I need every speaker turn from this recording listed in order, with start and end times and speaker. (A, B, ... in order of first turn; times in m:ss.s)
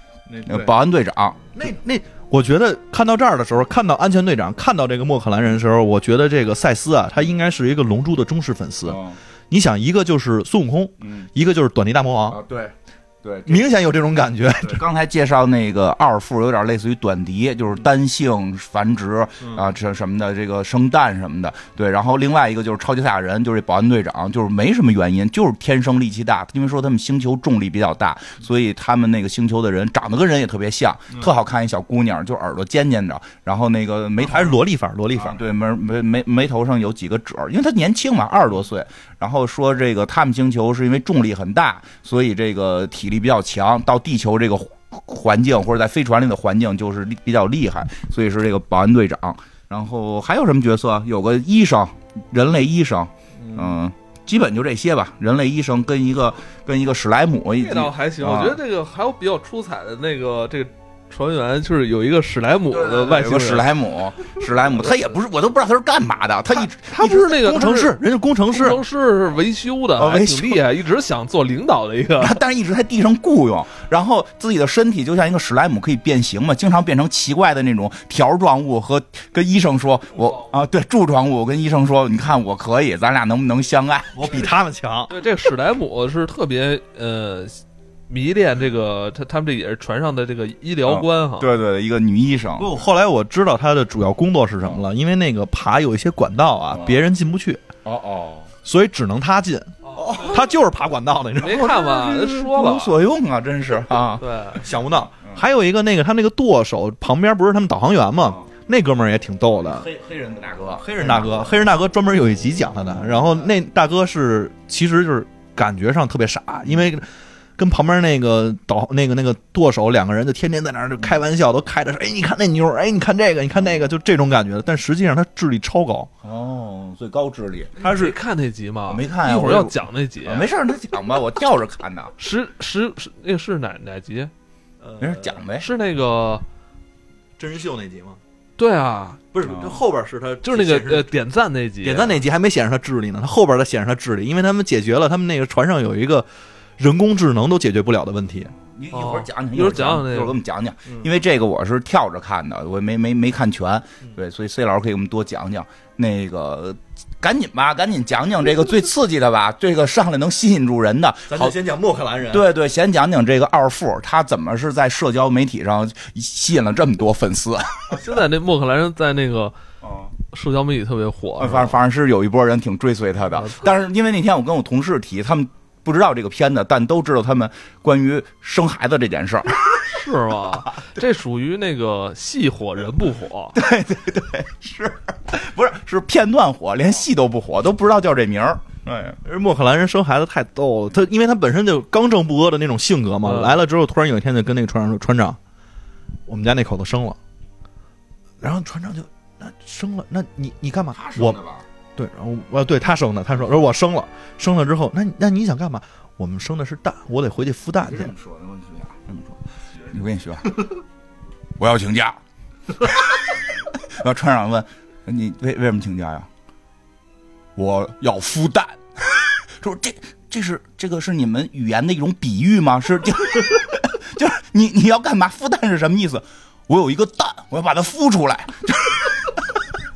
0:00.3-0:00.7 A
0:00.4-0:01.4 B
0:01.5-0:09.0 A
0:08.9-0:09.2 B
0:09.5-0:12.4 A
0:11.0-0:11.3 B
0:12.3-0:12.7 B
0:13.2-0:13.6 B
0:13.5-0:14.8 A
0:14.6-0:34.6 B
0:34.2-0:35.4 A
0:35.1-0:58.6 B
0:53.4-0:53.7 A
0:57.6-1:03.7 C
1:02.7-1:07.4 B
1:06.5-1:08.8 A
1:07.0-1:07.9 C
1:08.5-1:12.4 C
1:10.0-1:10.6 B
1:12.2-1:24.5 B
1:24.1-1:25.1 A
1:25.1-1:31.5 C
1:30.8-1:32.7 B
1:32.6-1:37.6 A
1:36.7-1:37.0 B
1:37.8-1:38.5 B
1:38.6-1:41.7 A
1:39.9-1:40.3 C
1:41.4-1:43.0 C
1:41.4-1:44.6 B
1:44.2-1:44.6 C
1:44.6-1:49.9 A
1:49.7-1:51.5 B
1:50.8-2:06.1 A
2:06.2-2:07.8 B
2:07.8-2:08.2 A
2:07.8-2:10.5 C
2:08.9-2:12.1 B
2:12.2-2:14.3 C
2:14.8-2:15.4 A
2:15.0-2:15.7 B
2:15.6-2:16.4 C
2:17.4-2:18.2 A
2:18.6-2:19.2 C
2:19.3-2:21.1 A
2:19.4-2:19.8 B
2:20.4-2:22.2 C
2:21.8-2:26.2 A
2:26.8-2:28.5 A
2:28.7-2:41.5 B
2:28.9-2:30.3 C
2:41.3-2:42.5 A
2:42.3-2:48.0 B
2:47.9-2:49.5 C
2:49.8-2:50.1 B
2:50.3-2:51.8 C
2:51.4-2:59.9 B
2:59.8-3:03.6 C
3:03.5-3:09.2 B
3:09.2-3:15.4 A
3:13.2-3:13.6 C
3:16.3-3:17.2 A
3:18.4-3:21.4 A
3:20.9-3:21.6 B
3:22.0-3:28.1 A
3:27.9-3:30.6 B
3:31.6-3:32.2 B
3:32.8-3:36.3 B
3:37.6-3:49.4 B